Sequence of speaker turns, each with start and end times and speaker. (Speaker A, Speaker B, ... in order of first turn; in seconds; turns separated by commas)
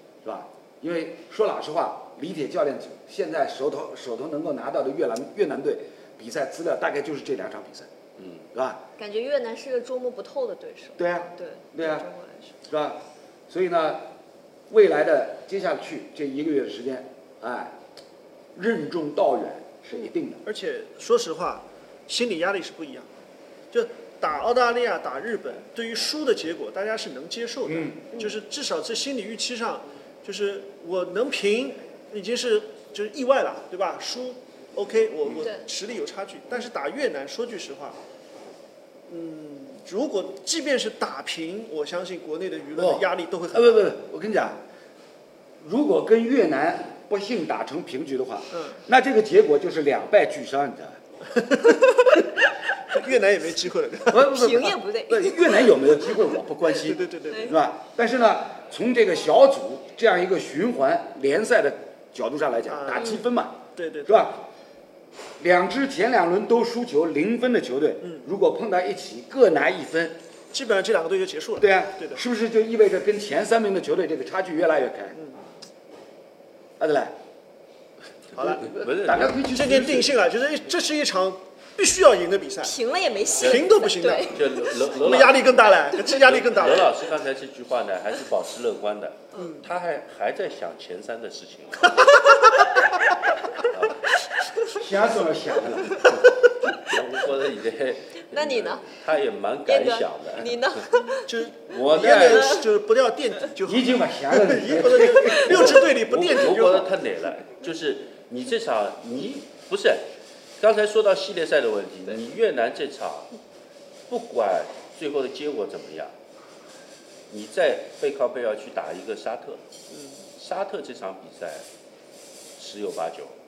Speaker A: 0.2-7.9, Speaker B: 8.2-8.4, Speaker A: 8.5-8.8, Speaker C: 9.0-12.5, Speaker A: 11.0-12.1, Speaker A: 12.7-14.1, Speaker A: 14.7-17.8, Speaker A: 18.5-20.4, Speaker D: 20.4-23.1, Speaker D: 23.7-38.0, Speaker A: 27.6-28.1, Speaker D: 39.1-43.9, Speaker A: 42.8-44.6, Speaker A: 45.6-51.0, Speaker D: 51.3-52.1, Speaker D: 52.9-54.4, Speaker A: 54.1-64.4, Speaker C: 54.3-55.7, Speaker D: 56.6-57.5, Speaker D: 62.7-63.2, Speaker D: 63.7-64.3, Speaker A: 65.4-70.2, Speaker D: 68.0-68.3, Speaker D: 70.5-72.2, Speaker A: 71.6-75.2, Speaker D: 75.1-75.4, Speaker A: 76.8-77.2, Speaker D: 78.3-78.7, Speaker A: 78.4-80.1, Speaker B: 78.5-79.4, Speaker D: 79.5-82.8, Speaker C: 82.6-84.4, Speaker D: 83.4-87.1, Speaker B: 84.3-85.5, Speaker B: 86.1-92.2, Speaker D: 89.3-89.6, Speaker B: 93.6-94.0, Speaker A: 94.7-96.2, Speaker B: 96.8-100.7, Speaker C: 98.3-98.8, Speaker C: 99.7-101.3, Speaker D: 101.3-106.9, Speaker B: 101.7-102.6, Speaker C: 102.3-102.6, Speaker A: 103.6-105.8, Speaker B: 105.5-110.0, Speaker B: 110.6-113.3, Speaker B: 114.1-116.1, Speaker B: 117.3-119.6, Speaker D: 119.9-120.2, Speaker B: 120.4-121.6, Speaker B: 122.5-123.3